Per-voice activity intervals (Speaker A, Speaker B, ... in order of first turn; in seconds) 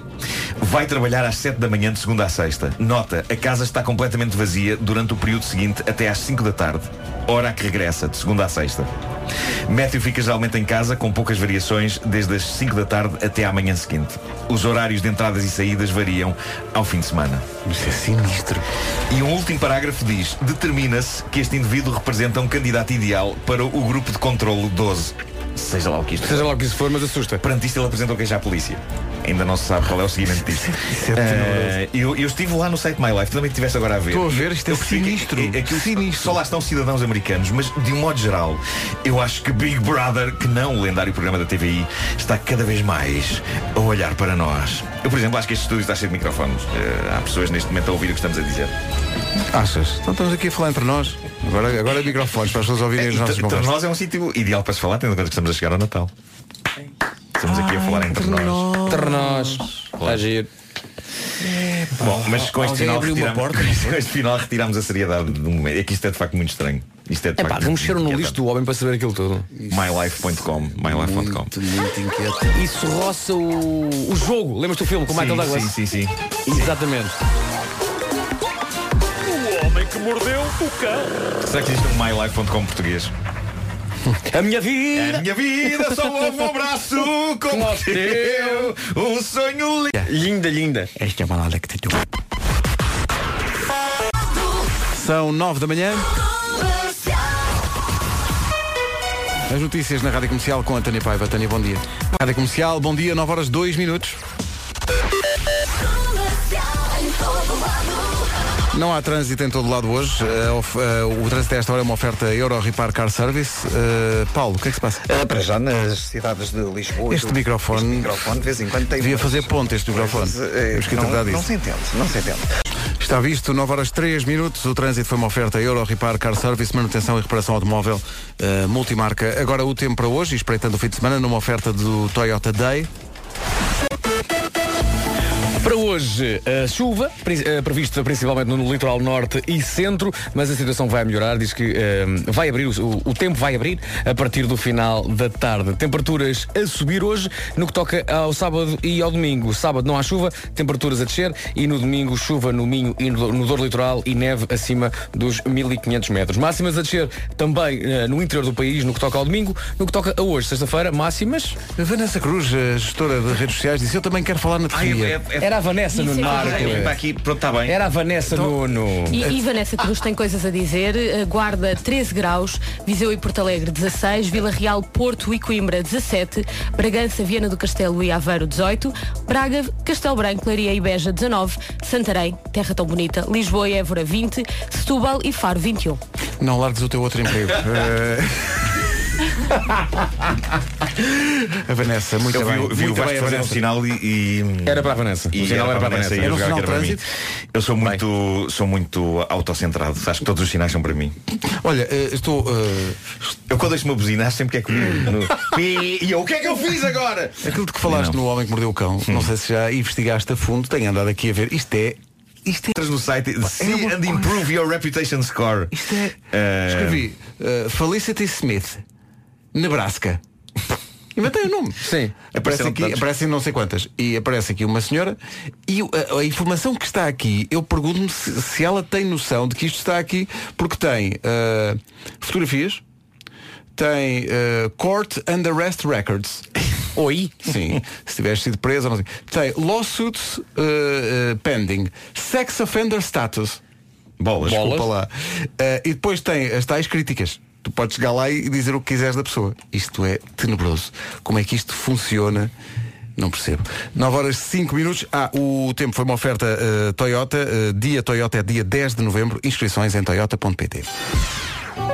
Speaker A: 0.6-8.9, 9.7-17.4, 19.1-26.5, 27.4-48.7, 52.9-56.1, 57.4-58.8, 60.0-60.2, 61.4-68.4, 69.7-71.5, 75.1-76.7, 81.4-83.1, 84.9-90.0, 164.7-167.8, 192.3-201.2, 203.5-208.2, 212.8-215.7, 216.3-217.1, 222.3-223.1, 244.2-244.7
Speaker B: 17.6-18.6, 30.6-31.8, 34.1-36.4, 49.5-53.8, 57.4-59.7, 62.0-63.9, 69.5-72.5, 91.0-92.0, 94.9-96.1, 99.5-104.2, 108.7-115.0, 117.1-118.1, 119.0-121.5, 123.0-132.9, 161.8-165.2, 186.4-188.8, 189.5-189.8, 191.0-193.6, 196.2-197.0, 201.5-203.0, 207.4-212.7, 213.4-214.3, 215.7-218.8, 219.5-220.2, 221.2-221.9, 222.4-232.8, 233.8-236.5, 237.4-243.6, 244.4-252.5, 253.2-260.9
Speaker C: 26.2-27.4, 58.9-60.5, 67.4-69.5, 72.5-75.8, 76.5-77.2, 79.3-81.1, 84.3-85.9, 87.5-88.7, 90.0-90.9, 135.6-161.6, 165.4-167.0, 167.7-169.3, 194.6-196.4, 221.8-222.1, 236.9-237.5, 244.4-244.9
Speaker D: 115.1-122.5
Speaker E: 169.3-186.0